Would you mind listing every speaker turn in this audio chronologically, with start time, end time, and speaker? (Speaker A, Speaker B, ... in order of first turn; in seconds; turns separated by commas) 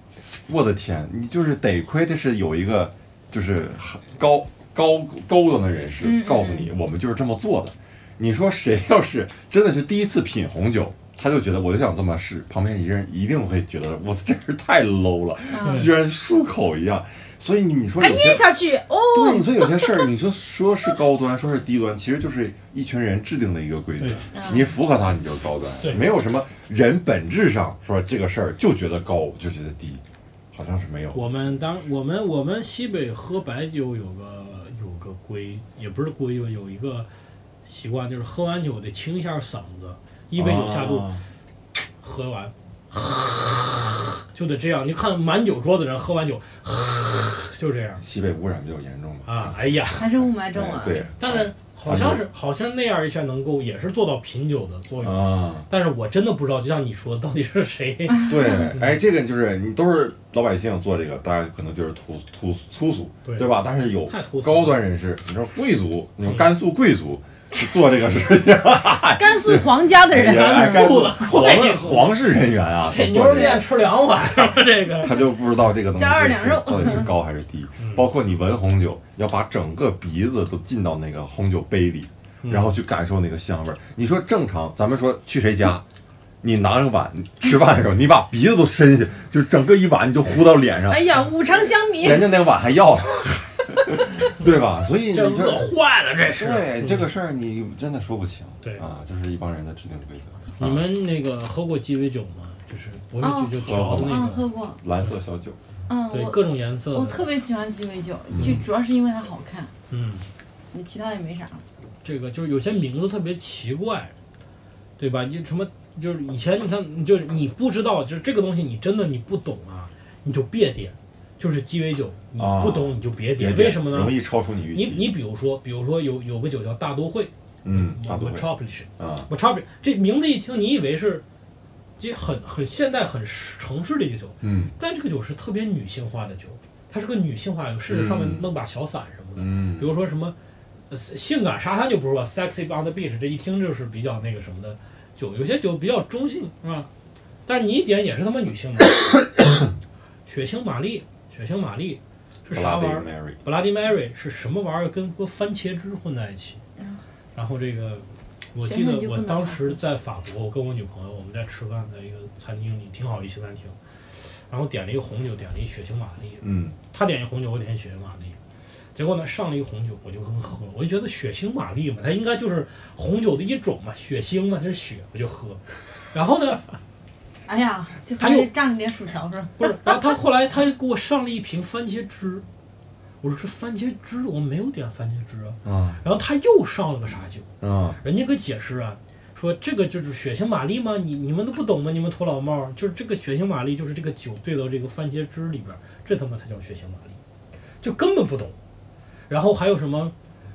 Speaker A: 0.5-18.4, Speaker B: 6.0-6.7, Speaker B: 15.5-15.9, Speaker C: 15.6-15.9, Speaker B: 18.0-20.1, Speaker A: 19.1-31.6, Speaker C: 24.0-24.2, Speaker B: 24.3-24.7, Speaker C: 25.8-26.1, Speaker C: 31.1-37.1, Speaker C: 37.6-41.1, Speaker A: 40.3-41.2, Speaker C: 42.0-48.0, Speaker A: 48.0-52.2, Speaker C: 49.2-50.1, Speaker B: 49.9-51.1, Speaker C: 51.2-58.9, Speaker A: 55.0-55.6, Speaker B: 58.1-58.7, Speaker A: 58.2-73.6, Speaker C: 63.2-63.5, Speaker C: 64.0-64.8, Speaker C: 66.2-66.5, Speaker B: 69.2-71.0, Speaker C: 70.1-72.1, Speaker C: 72.8-75.2, Speaker B: 73.2-73.6, Speaker A: 74.9-85.8, Speaker B: 75.9-77.1, Speaker C: 77.8-78.1, Speaker C: 82.4-82.7, Speaker A: 86.4-91.2, Speaker B: 90.9-92.5, Speaker A: 92.0-95.7, Speaker C: 95.1-97.1, Speaker A: 96.3-100.8, Speaker C: 100.6-104.5, Speaker B: 103.2-104.8, Speaker A: 103.6-104.2, Speaker A: 104.8-105.6, Speaker B: 105.9-109.7, Speaker C: 106.1-107.2, Speaker A: 108.3-108.6, Speaker C: 108.4-108.6, Speaker C: 109.9-110.3, Speaker B: 110.7-111.6, Speaker C: 112.0-114.1, Speaker C: 115.0-124.2, Speaker A: 122.4-125.1, Speaker C: 124.7-131.2, Speaker A: 127.6-128.5, Speaker A: 129.0-129.3, Speaker C: 132.0-140.3, Speaker A: 134.4-134.7, Speaker A: 137.9-138.5, Speaker A: 139.3-139.9, Speaker C: 140.9-146.9, Speaker C: 147.4-149.0, Speaker C: 150.3-156.6, Speaker A: 152.5-153.4, Speaker C: 157.3-163.8, Speaker B: 158.6-159.8, Speaker C: 164.5-168.4, Speaker A: 166.4-166.8, Speaker C: 168.9-176.6, Speaker B: 177.5-179.9, Speaker C: 178.2-178.5, Speaker C: 179.6-182.4, Speaker C: 183.2-187.5, Speaker A: 185.6-186.0, Speaker A: 187.6-188.0, Speaker C: 188.0-197.2, Speaker C: 197.8-198.6, Speaker C: 199.3-200.1